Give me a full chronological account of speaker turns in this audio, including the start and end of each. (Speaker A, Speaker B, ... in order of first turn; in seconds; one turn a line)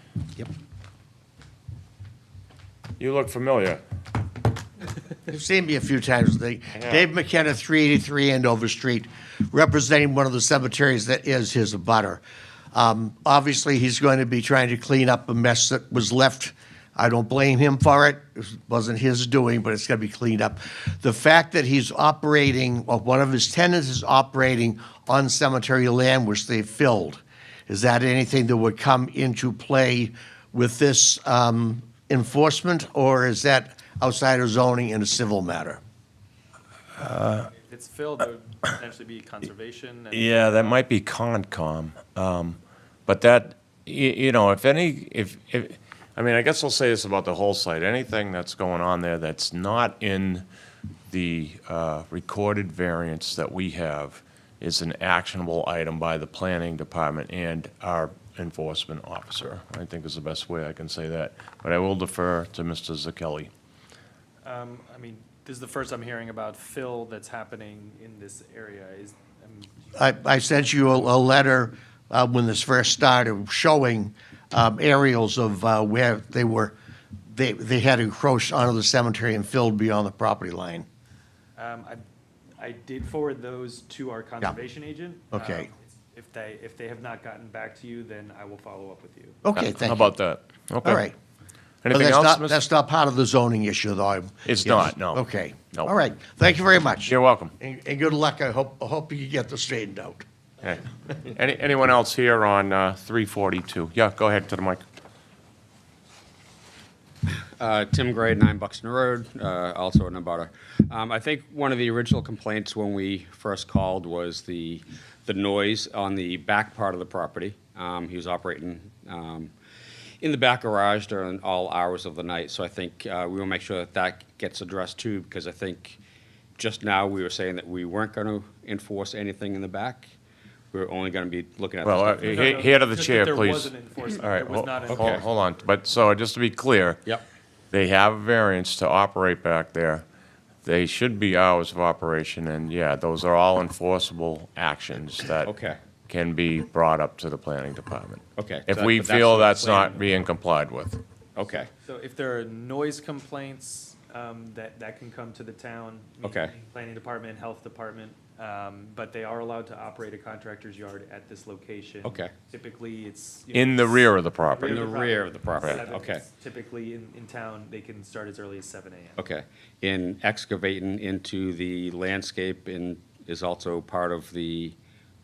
Speaker A: 3.0-3.8
Speaker B: 5.3-12.2
Speaker A: 6.7-7.0
Speaker B: 12.7-35.8
Speaker A: 37.0-37.5
Speaker C: 37.5-40.8
Speaker A: 40.1-50.4
Speaker A: 51.1-63.5
Speaker C: 64.4-69.9
Speaker B: 69.9-76.7
Speaker B: 77.3-80.8
Speaker C: 81.5-82.0
Speaker C: 82.6-89.4
Speaker B: 85.3-85.7
Speaker B: 89.4-90.2
Speaker A: 89.5-91.1
Speaker B: 90.8-91.1
Speaker A: 91.8-92.6
Speaker B: 91.9-100.2
Speaker A: 94.4-95.9
Speaker A: 97.0-97.5
Speaker A: 100.6-104.8
Speaker D: 107.2-119.5
Speaker D: 120.2-126.0
Speaker D: 126.6-130.1
Speaker D: 130.7-132.6
Speaker A: 131.8-137.0
Speaker C: 132.2-135.2
Speaker D: 134.9-135.2
Speaker A: 137.7-140.0
Speaker A: 140.6-145.5
Speaker D: 145.4-145.8
Speaker A: 146.1-151.0
Speaker D: 148.3-150.0
Speaker D: 151.3-151.7
Speaker C: 151.8-169.2
Speaker D: 156.2-156.5
Speaker D: 162.0-162.3
Speaker A: 163.5-164.9
Speaker D: 164.6-166.2
Speaker D: 169.2-174.8